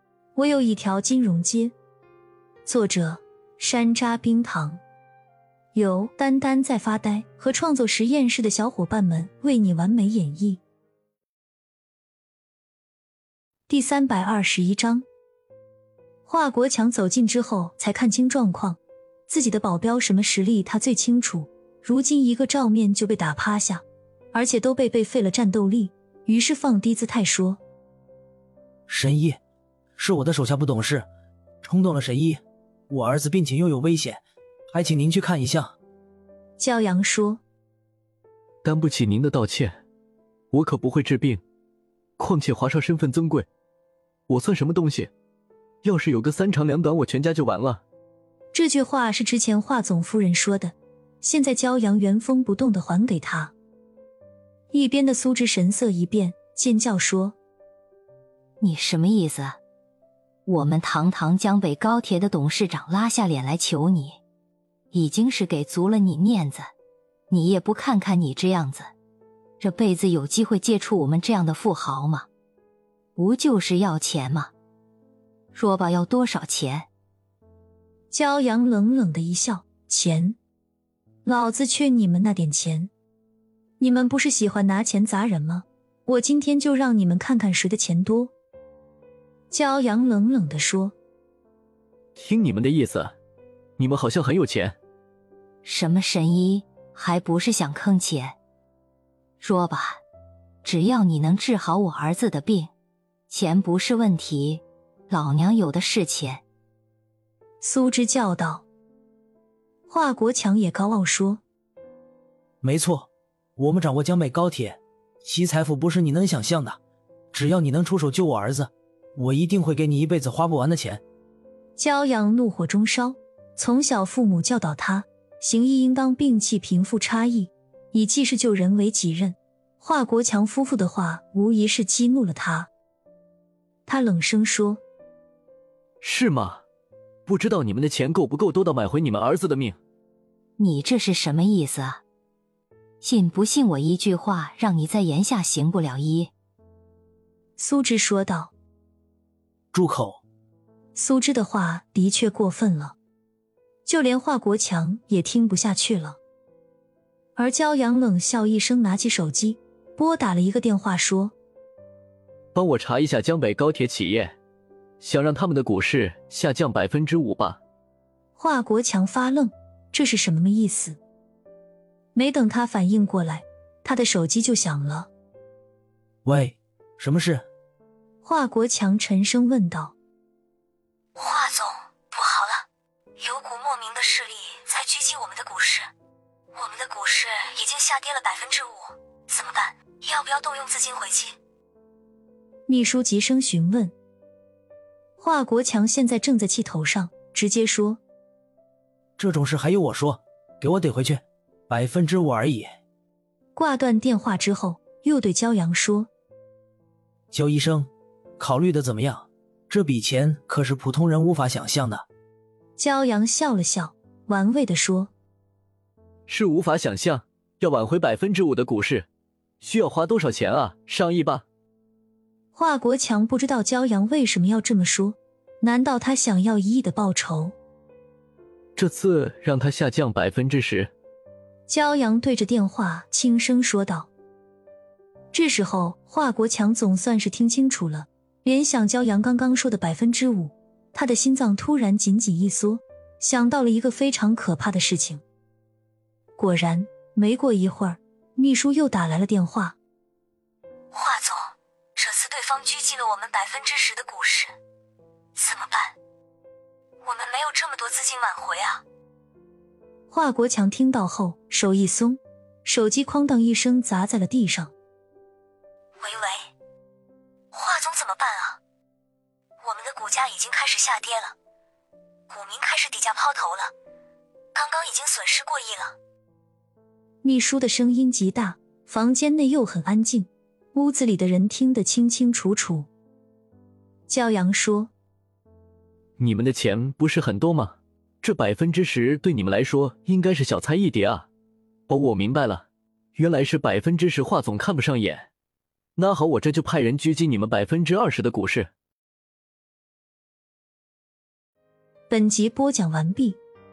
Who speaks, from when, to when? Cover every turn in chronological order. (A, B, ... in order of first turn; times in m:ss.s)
0:00.4-0:01.8 A
0:02.7-0:04.8 A
0:05.7-0:10.6 A
0:13.7-0:15.0 A
0:16.3-0:27.6 A
0:28.9-0:29.4 B
0:30.0-0:31.1 B
0:31.6-0:35.8 B
0:36.6-0:37.4 A
0:38.6-0:39.8 C
0:40.5-0:41.4 C
0:42.2-0:43.5 C
0:44.3-0:45.1 C
0:45.8-0:47.8 C
0:48.5-0:53.5 A
0:54.7-0:57.4 A
0:58.6-0:59.6 D
1:00.5-1:04.2 D
1:04.9-1:06.7 D
1:07.3-1:08.9 D
1:09.6-1:12.3 D
1:13.2-1:14.5 D
1:15.5-1:16.9 D
1:18.1-1:20.4 A
1:21.2-1:22.9 A
1:23.8-1:28.3 A
1:29.5-1:31.0 A
1:32.2-1:33.1 C
1:33.8-1:34.8 C
1:35.6-1:38.4 D
1:39.4-1:40.0 D
1:40.6-1:42.7 D
1:43.3-1:46.4 D
1:47.6-1:48.6 A
1:49.9-1:51.4 A
1:52.6-1:56.8 B
1:57.3-2:01.0 B
2:01.8-2:12.7 A
2:13.9-2:14.8 A
2:16.0-2:16.6 C
2:17.3-2:19.8 C
2:20.6-2:22.0 D
2:23.0-2:26.3 D
2:27.6-2:28.5 A
2:29.7-2:30.2 B
2:31.0-2:33.0 A
2:33.8-2:36.2 A
2:37.4-2:41.3 A
2:42.6-2:44.3 C
2:45.0-2:47.6 C
2:48.4-2:51.0 A
2:52.2-2:55.1 A
2:56.2-2:57.4 B
2:58.2-2:59.9 A
3:01.2-3:02.6 E
3:03.2-3:05.9 E
3:06.6-3:11.4 E
3:12.7-3:13.9 A
3:15.2-3:18.0 A
3:19.2-3:22.7 B
3:23.6-3:26.1 A
3:27.3-3:32.1 B
3:32.8-3:35.1 A
3:36.3-3:39.1 C
3:39.6-3:41.4 C
3:42.5-3:47.6 A
3:48.8-3:50.9 C
3:51.7-3:54.1 A
3:55.3-4:05.2 A
4:06.4-4:09.8 A
4:10.9-4:14.5 E
4:15.4-4:16.0 E
4:17.0-4:18.8 E
4:20.1-4:24.7 A
4:26.0-4:26.4 E
4:27.5-4:28.6 E
4:29.6-4:31.3 E
4:32.3-4:33.7 E
4:34.6-4:35.9 E
4:37.2-4:42.9 A
4:44.1-4:44.9 A
4:46.2-4:51.3 C
4:51.9-4:52.6 C
4:53.2-4:55.3 C
4:56.0-4:58.7 C
5:02.1-5:03.4 A